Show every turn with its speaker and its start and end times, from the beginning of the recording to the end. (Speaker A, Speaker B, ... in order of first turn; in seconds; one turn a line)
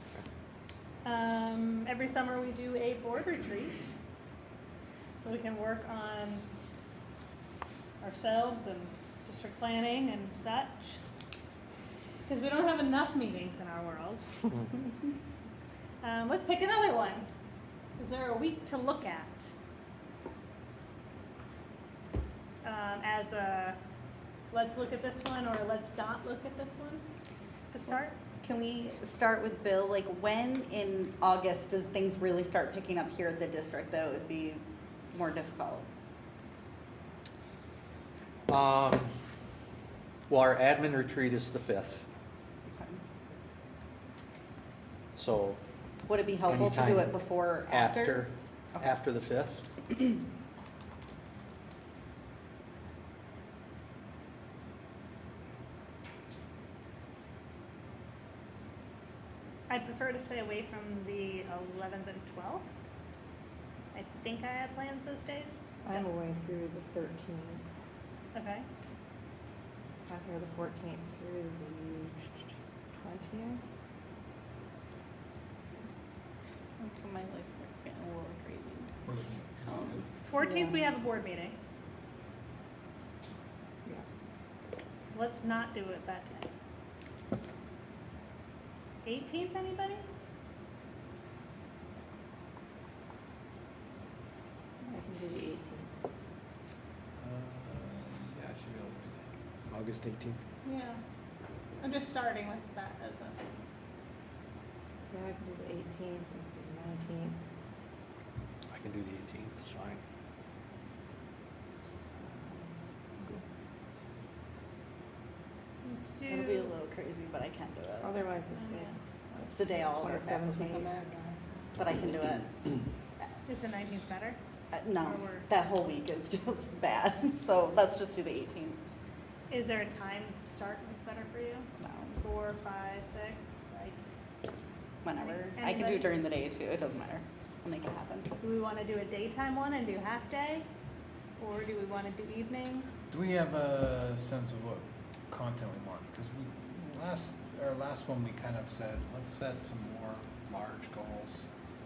Speaker A: 1.0-3.9
Speaker A: 5.2-6.4
Speaker A: 8.0-11.0
Speaker A: 12.3-14.9
Speaker A: 16.0-17.3
Speaker A: 18.0-19.5
Speaker A: 22.6-23.8
Speaker A: 24.5-27.0
Speaker A: 27.7-28.1
Speaker B: 27.9-35.9
Speaker C: 38.5-39.1
Speaker C: 40.3-42.0
Speaker B: 42.7-43.0
Speaker C: 45.1-45.6
Speaker B: 46.1-48.2
Speaker C: 46.5-49.9
Speaker A: 59.7-62.7
Speaker A: 63.9-66.0
Speaker D: 65.8-67.7
Speaker A: 68.3-68.7
Speaker D: 70.1-72.2
Speaker D: 72.9-73.6
Speaker B: 76.8-79.0
Speaker E: 79.0-80.2
Speaker B: 79.7-80.0
Speaker A: 80.2-81.5
Speaker D: 80.4-80.8
Speaker D: 83.8-84.2
Speaker A: 85.1-86.5
Speaker A: 89.0-90.0
Speaker D: 94.8-95.9
Speaker E: 97.2-99.2
Speaker C: 99.7-100.4
Speaker A: 100.6-101.0
Speaker A: 101.8-103.5
Speaker D: 105.1-107.4
Speaker C: 108.7-110.0
Speaker A: 115.8-116.7
Speaker B: 116.3-118.1
Speaker D: 118.0-121.4
Speaker A: 118.5-118.9
Speaker B: 119.5-121.0
Speaker B: 121.8-122.5
Speaker A: 123.5-124.4
Speaker B: 124.7-128.8
Speaker A: 125.0-125.5
Speaker A: 129.5-134.0
Speaker B: 131.8-132.2
Speaker B: 135.0-138.3
Speaker A: 135.2-136.1
Speaker A: 138.4-140.7
Speaker A: 141.4-142.9
Speaker E: 143.1-151.5